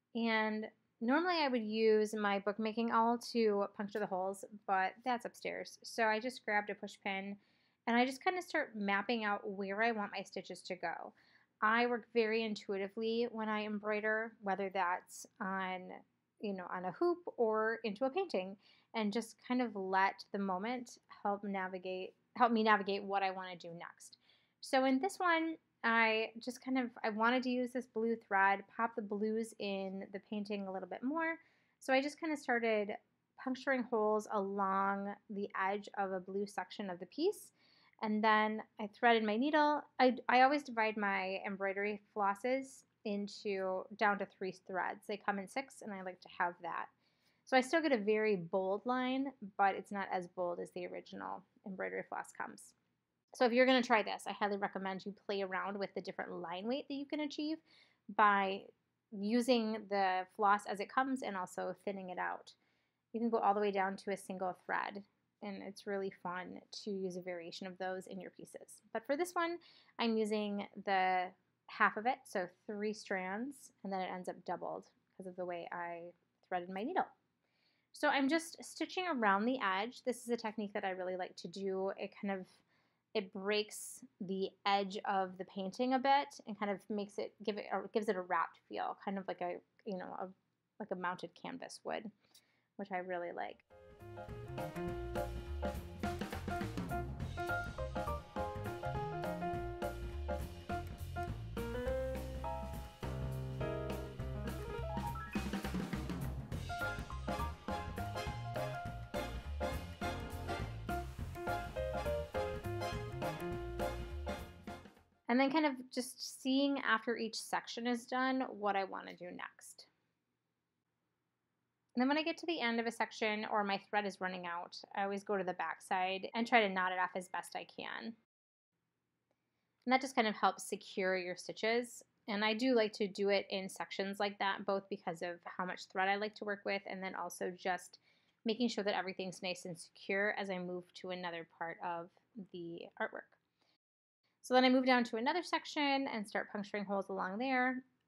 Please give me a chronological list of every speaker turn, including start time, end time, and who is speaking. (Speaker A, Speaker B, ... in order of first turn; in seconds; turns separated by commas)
Speaker A: 0.1-46.9, Speaker A: 47.5-52.7, Speaker A: 53.3-62.6, Speaker A: 63.1-77.1, Speaker A: 77.9-92.1, Speaker A: 92.8-93.6, Speaker A: 115.3-119.9, Speaker A: 122.0-128.2, Speaker A: 129.8-143.4, Speaker A: 144.4-147.8